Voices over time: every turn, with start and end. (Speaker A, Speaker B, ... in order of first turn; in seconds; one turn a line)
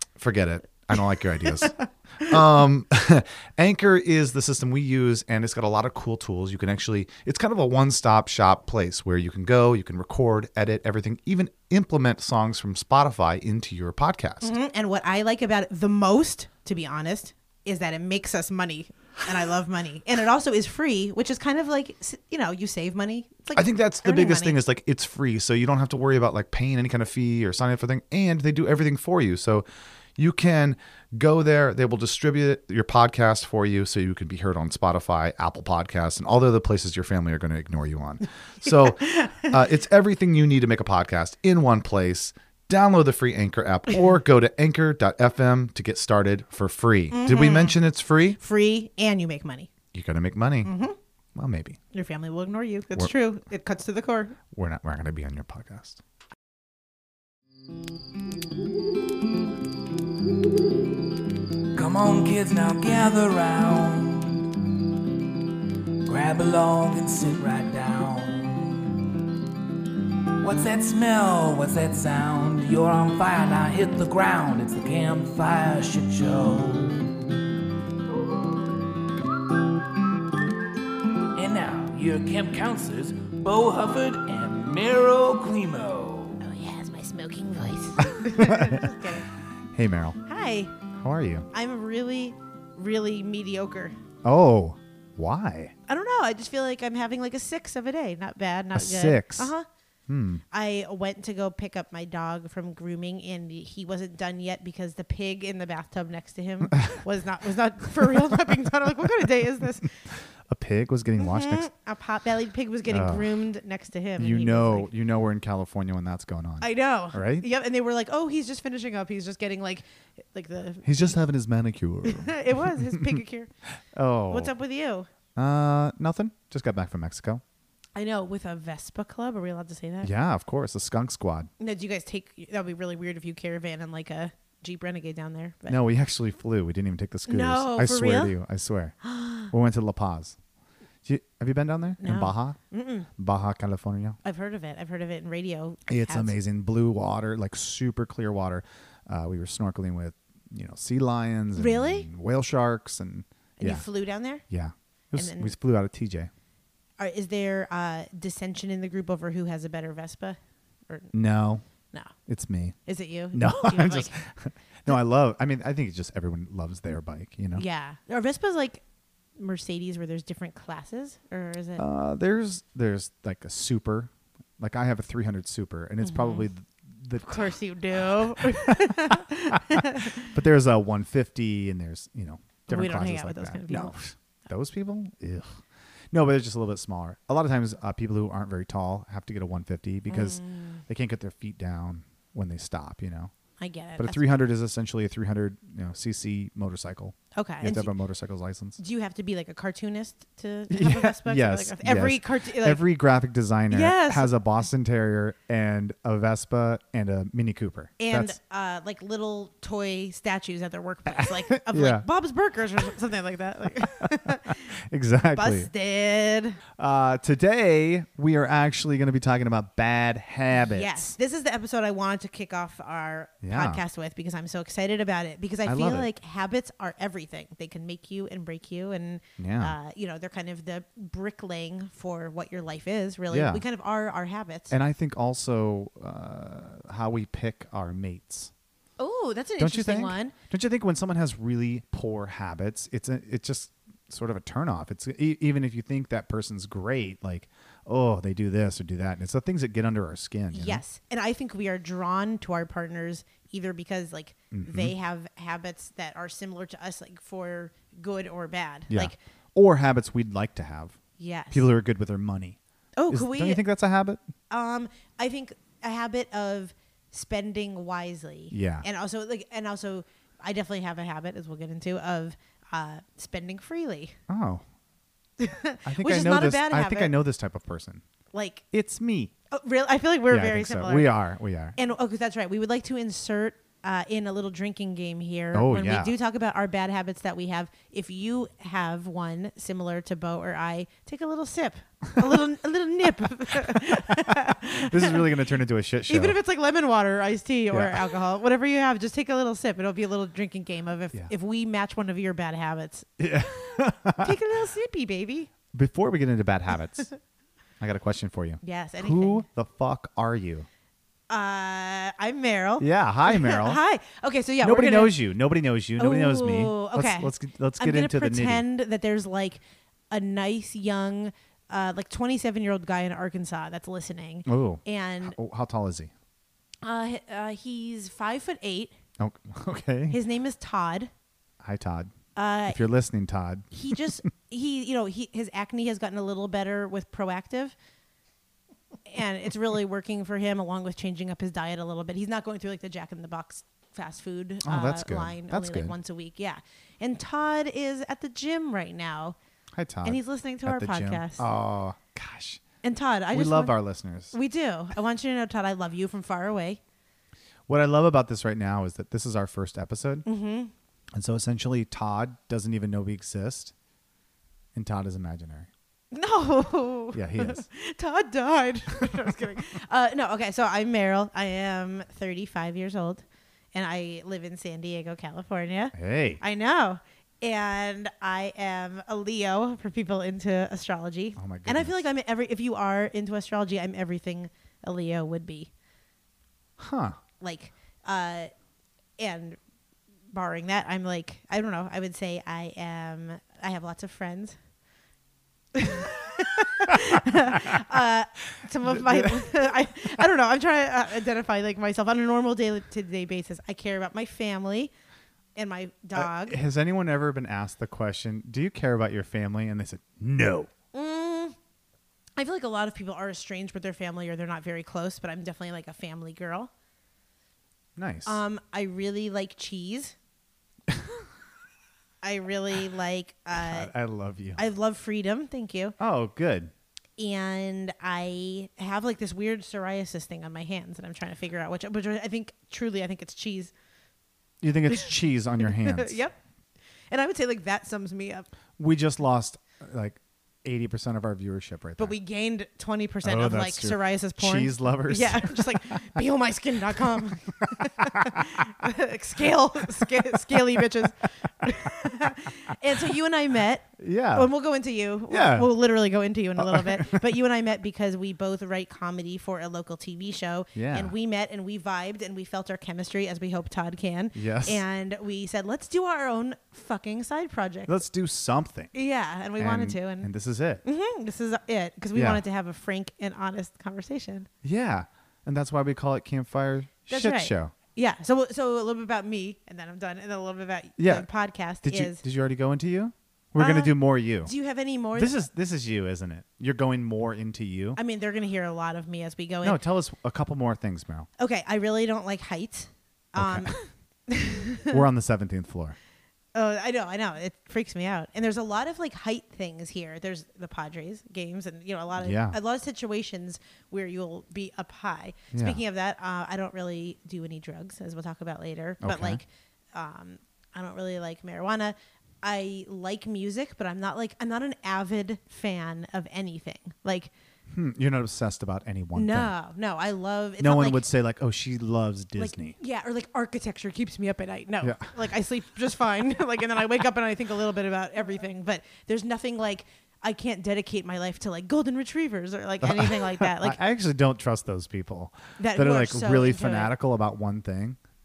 Speaker A: 0.2-14.6
Speaker B: 0.9-2.4
Speaker B: 14.4-24.6
Speaker A: 23.5-29.6
Speaker A: 30.2-48.4
Speaker B: 38.6-39.6
Speaker B: 47.1-47.8
Speaker B: 48.4-49.7
Speaker A: 49.9-50.7
Speaker B: 50.6-51.0
Speaker A: 51.3-51.8
Speaker B: 51.9-54.4
Speaker A: 54.5-56.0
Speaker C: 61.7-64.5
Speaker C: 66.0-69.0
Speaker C: 70.4-77.2
Speaker C: 81.3-86.4
Speaker B: 86.4-89.3
Speaker A: 88.1-89.0
Speaker A: 89.7-90.2
Speaker B: 90.2-90.7
Speaker A: 91.0-91.5
Speaker B: 91.5-94.0
Speaker A: 94.2-95.7
Speaker B: 95.9-99.7
Speaker A: 98.7-99.5
Speaker A: 100.1-100.4
Speaker B: 100.5-109.9
Speaker A: 110.5-111.7
Speaker B: 111.2-114.9
Speaker A: 112.9-113.4
Speaker A: 114.2-117.5
Speaker B: 116.6-121.2
Speaker A: 120.8-123.2
Speaker B: 122.0-123.5
Speaker A: 123.9-124.5
Speaker B: 124.3-125.1
Speaker A: 125.3-127.4
Speaker B: 127.9-130.1
Speaker A: 130.0-131.5
Speaker B: 131.6-135.8
Speaker A: 135.7-138.9
Speaker B: 137.3-138.3
Speaker B: 139.0-139.5
Speaker A: 139.5-140.3
Speaker A: 141.0-142.6
Speaker B: 142.0-143.1
Speaker A: 143.2-144.2
Speaker B: 144.2-146.4
Speaker A: 145.9-153.8
Speaker B: 151.6-152.1
Speaker B: 153.6-154.4
Speaker A: 154.5-156.3
Speaker B: 155.1-155.5
Speaker B: 157.0-161.1
Speaker A: 161.1-161.6
Speaker A: 162.3-162.8
Speaker B: 162.9-164.1
Speaker A: 163.3-167.6
Speaker B: 167.5-168.8
Speaker B: 169.3-171.8
Speaker A: 171.8-185.6
Speaker B: 176.0-176.5
Speaker B: 177.2-180.3
Speaker B: 182.7-184.0
Speaker A: 186.1-193.3
Speaker B: 190.1-190.8
Speaker B: 193.6-194.4
Speaker A: 194.0-198.8
Speaker B: 197.3-197.9
Speaker B: 198.8-202.8
Speaker A: 200.7-208.4
Speaker B: 203.7-204.3
Speaker B: 208.0-214.7
Speaker A: 211.1-212.0
Speaker A: 214.7-215.7
Speaker B: 215.3-216.6
Speaker A: 216.8-221.1
Speaker B: 220.6-234.7
Speaker A: 223.4-223.8
Speaker A: 225.6-226.1
Speaker A: 229.4-229.8
Speaker A: 233.3-233.6
Speaker A: 234.7-238.5
Speaker B: 239.0-240.3
Speaker A: 239.6-250.8
Speaker B: 250.5-259.2
Speaker A: 254.5-254.9
Speaker A: 258.9-261.0
Speaker B: 261.2-261.6
Speaker A: 261.5-262.6
Speaker B: 262.9-263.6
Speaker A: 263.1-264.3
Speaker B: 264.5-274.2
Speaker A: 268.5-268.9
Speaker A: 274.3-274.6
Speaker B: 275.4-277.1
Speaker A: 275.8-278.0
Speaker B: 278.3-278.6
Speaker A: 278.7-279.3
Speaker B: 279.5-281.1
Speaker A: 280.3-281.8
Speaker B: 281.8-295.3
Speaker A: 285.5-286.1
Speaker A: 293.7-296.4
Speaker B: 296.1-303.2
Speaker A: 297.7-298.1
Speaker A: 303.2-304.4
Speaker B: 304.2-305.5
Speaker A: 305.7-307.1
Speaker A: 307.8-310.7
Speaker B: 308.6-309.4
Speaker B: 311.3-315.2
Speaker A: 312.8-313.8
Speaker A: 314.6-318.6
Speaker B: 316.0-325.4
Speaker A: 324.4-326.1
Speaker B: 326.8-328.9
Speaker A: 329.2-330.2
Speaker B: 330.1-331.1
Speaker A: 331.6-332.1
Speaker B: 332.3-332.8
Speaker A: 332.7-334.0
Speaker B: 333.7-337.8
Speaker B: 339.1-349.4
Speaker A: 344.6-345.9
Speaker A: 349.7-352.6
Speaker B: 350.0-351.4
Speaker B: 352.8-353.8
Speaker A: 353.3-354.3
Speaker B: 354.3-356.8
Speaker A: 357.7-360.2
Speaker B: 360.2-360.7
Speaker A: 361.1-363.7
Speaker A: 364.7-365.7
Speaker B: 366.1-385.7
Speaker A: 367.1-367.6
Speaker A: 375.9-376.4
Speaker A: 381.4-382.0
Speaker A: 386.8-387.2
Speaker B: 387.4-388.5
Speaker B: 389.2-389.6
Speaker B: 390.3-394.6
Speaker B: 395.7-404.9
Speaker A: 398.8-399.7
Speaker B: 405.5-406.6
Speaker A: 406.1-410.7
Speaker B: 410.9-411.6
Speaker B: 412.4-416.7
Speaker A: 418.0-418.4
Speaker B: 418.2-420.1
Speaker A: 420.9-421.2
Speaker B: 422.2-423.9
Speaker A: 423.6-424.6
Speaker B: 424.6-425.9
Speaker A: 426.0-426.7
Speaker B: 427.2-433.7
Speaker A: 434.6-436.2
Speaker B: 434.9-436.4
Speaker B: 437.1-438.5
Speaker A: 438.8-442.1
Speaker B: 442.0-467.9
Speaker A: 443.2-446.2
Speaker A: 447.6-448.6
Speaker A: 454.0-454.5
Speaker A: 455.3-455.7
Speaker A: 456.6-457.2
Speaker A: 460.7-461.1
Speaker A: 464.3-464.8
Speaker A: 467.9-468.9
Speaker B: 468.9-470.3
Speaker A: 469.6-470.8
Speaker B: 470.8-474.5
Speaker A: 472.1-472.4
Speaker A: 474.6-477.7
Speaker B: 477.1-482.2
Speaker A: 481.0-481.3
Speaker A: 481.8-484.5
Speaker B: 483.6-485.4
Speaker A: 485.1-488.0
Speaker B: 488.0-489.8
Speaker A: 489.6-491.3
Speaker B: 491.4-495.0
Speaker A: 493.4-493.7
Speaker A: 494.9-496.0
Speaker B: 496.5-517.3
Speaker A: 502.2-502.6
Speaker A: 505.5-505.8
Speaker A: 509.0-509.4
Speaker A: 517.7-519.5
Speaker B: 519.1-521.0
Speaker A: 520.6-522.8
Speaker B: 522.4-533.8
Speaker A: 524.8-525.1
Speaker A: 532.8-538.0
Speaker B: 535.6-536.9